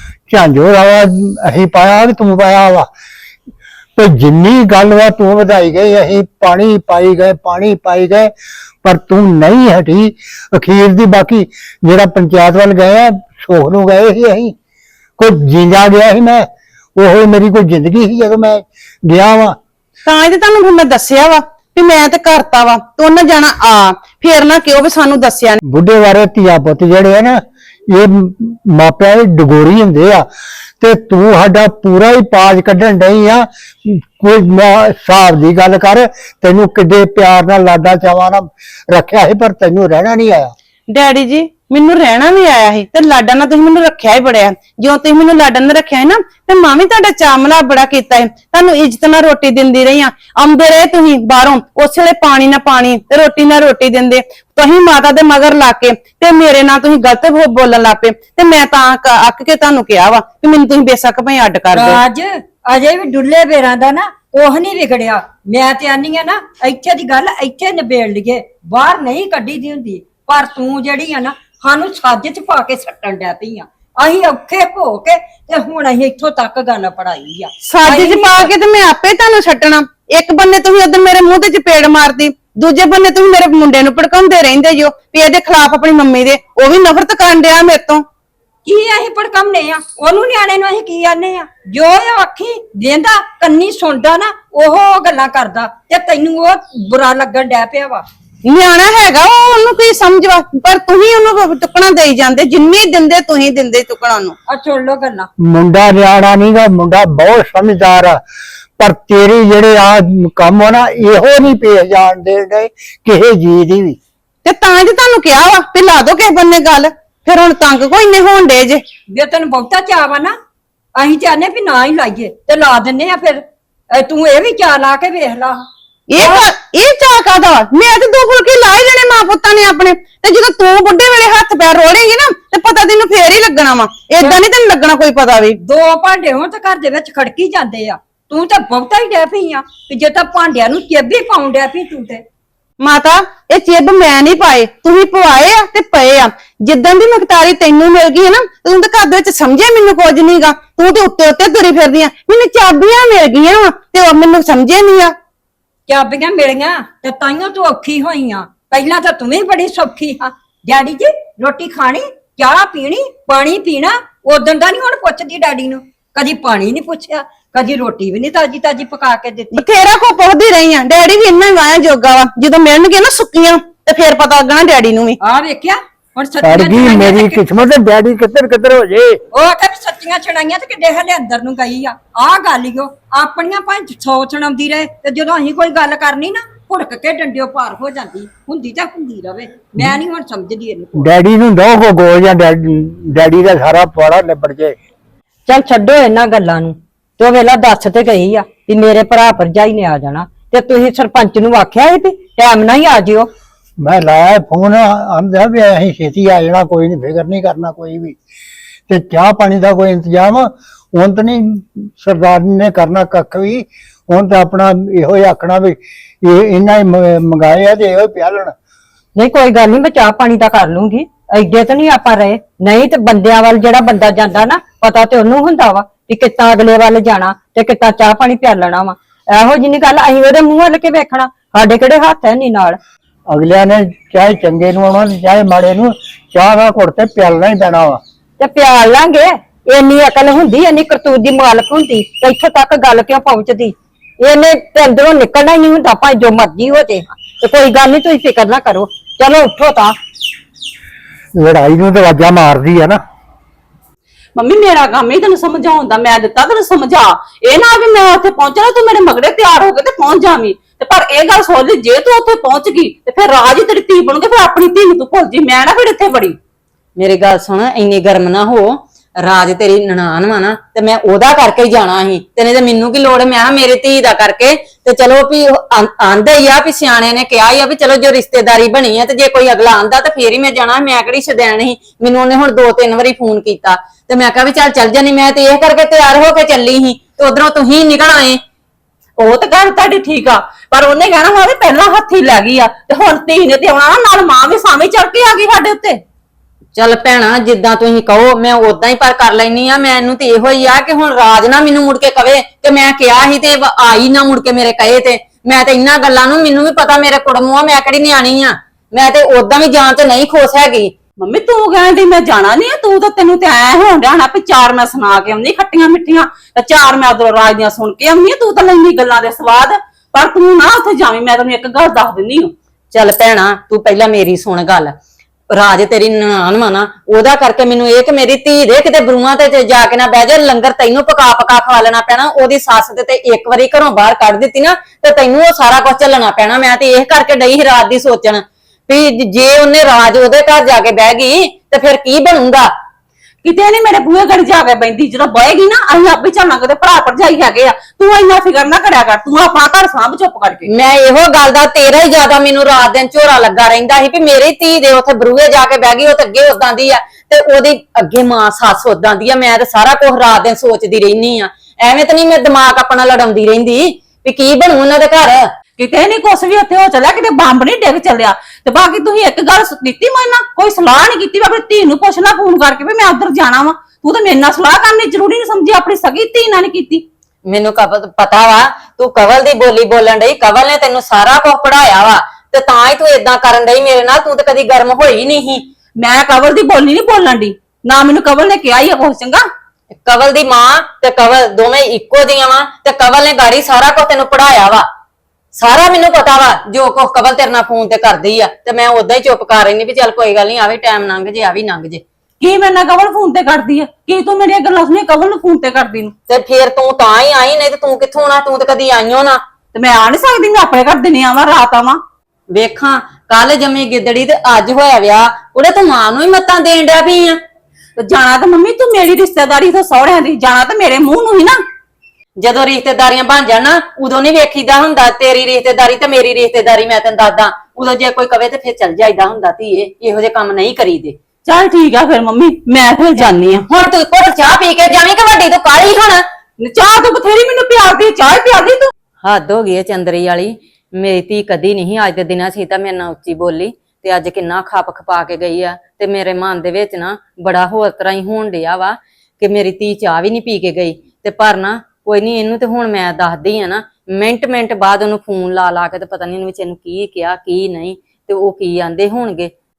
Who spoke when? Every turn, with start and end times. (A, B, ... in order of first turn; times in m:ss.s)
0:00.3-0:02.9 A
0:04.0-0:08.3 A
0:08.8-0:14.5 A
0:15.2-0:19.6 A
0:20.0-0:25.6 B
0:25.6-0:30.2 A
0:30.8-0:40.5 A
0:40.9-1:02.0 B
1:01.7-1:18.5 C
1:17.6-1:28.0 B
1:28.6-1:38.0 C
1:38.4-1:44.3 B
1:44.5-1:45.3 C
1:45.4-1:48.2 A
1:48.8-1:54.0 A
1:54.4-1:58.8 B
1:59.1-2:00.3 C
2:01.0-2:05.6 C
2:06.1-2:15.6 B
2:06.2-2:06.4 C
2:15.6-2:22.2 C
2:22.8-2:35.1 B
2:35.9-2:49.6 C
2:49.5-2:55.2 B
2:55.2-2:57.4 C
2:56.4-2:59.2 A
2:59.3-3:11.1 C
3:11.0-3:14.8 A
3:15.5-3:23.3 C
3:23.8-3:28.2 A
3:28.9-3:38.5 A
3:39.1-3:52.8 C
3:53.3-3:58.0 A
3:58.4-4:10.0 C
4:11.3-4:13.0 A
4:14.3-4:26.4 D
4:27.0-4:48.4 E
4:49.2-4:56.0 D
4:56.7-5:10.9 E
5:11.2-5:22.5 D
5:22.9-5:24.9 E
5:25.5-5:42.7 E
5:43.4-5:50.7 D
5:50.7-6:05.5 E
6:05.8-6:17.0 D
6:17.5-6:25.7 E
6:26.0-6:29.5 D
6:30.0-6:34.9 E
6:35.5-6:42.0 E
6:42.4-6:46.1 D
6:46.3-6:49.4 E
6:49.7-6:52.0 D
6:52.5-6:57.4 E
6:58.0-7:01.6 D
7:02.4-7:11.2 E
7:11.4-7:13.7 D
7:13.2-7:16.2 E
7:16.6-7:18.9 D
7:19.2-7:39.5 E